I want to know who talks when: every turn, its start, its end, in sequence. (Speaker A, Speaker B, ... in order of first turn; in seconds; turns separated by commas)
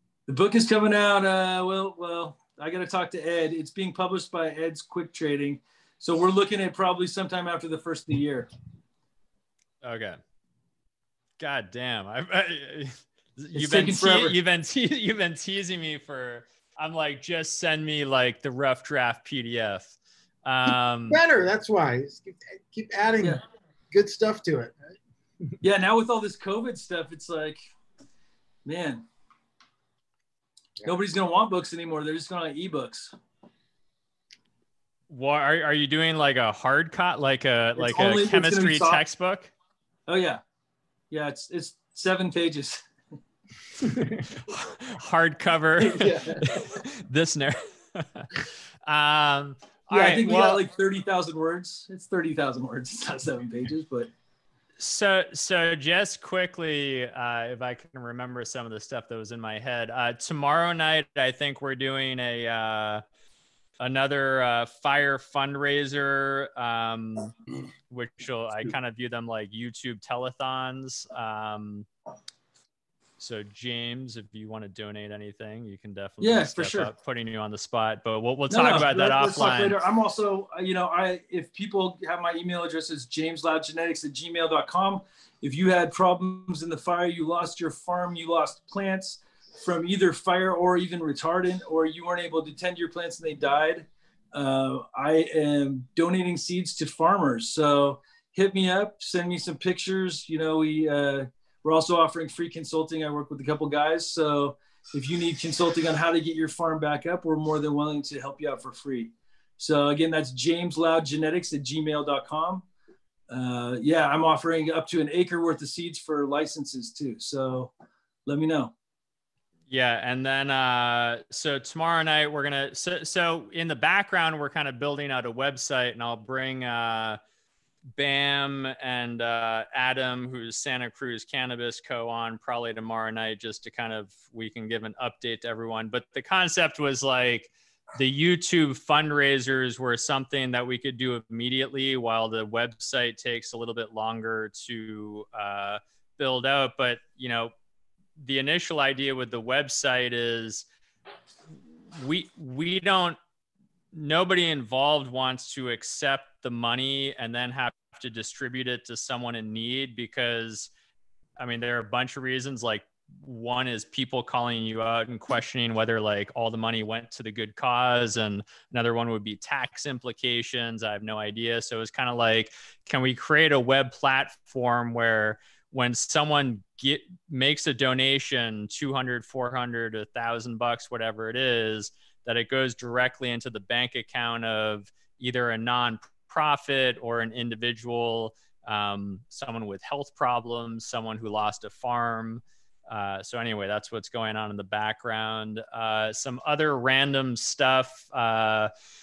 Speaker A: 0.3-8.5, Speaker B: 9.8-10.2, Speaker B: 11.4-19.9, Speaker A: 13.5-14.3, Speaker B: 20.4-21.2, Speaker C: 21.1-23.4, Speaker C: 23.9-24.8, Speaker A: 25.6-27.6, Speaker A: 28.6-29.0, Speaker A: 30.9-33.1, Speaker B: 35.1-39.5, Speaker A: 37.8-39.0, Speaker A: 40.1-40.4, Speaker A: 41.1-42.9, Speaker B: 44.4-50.6, Speaker A: 45.8-46.6, Speaker A: 49.9-54.1, Speaker B: 54.8-63.0, Speaker B: 63.8-67.3, Speaker B: 67.9-71.9, Speaker B: 73.2-79.8, Speaker A: 76.2-76.9, Speaker A: 78.5-112.7, Speaker A: 113.3-117.7, Speaker A: 118.3-118.7, Speaker B: 119.7-127.2, Speaker B: 128.0-147.5, Speaker B: 148.2-150.7, Speaker B: 151.9-153.2, Speaker B: 153.9-160.7, Speaker B: 161.4-198.7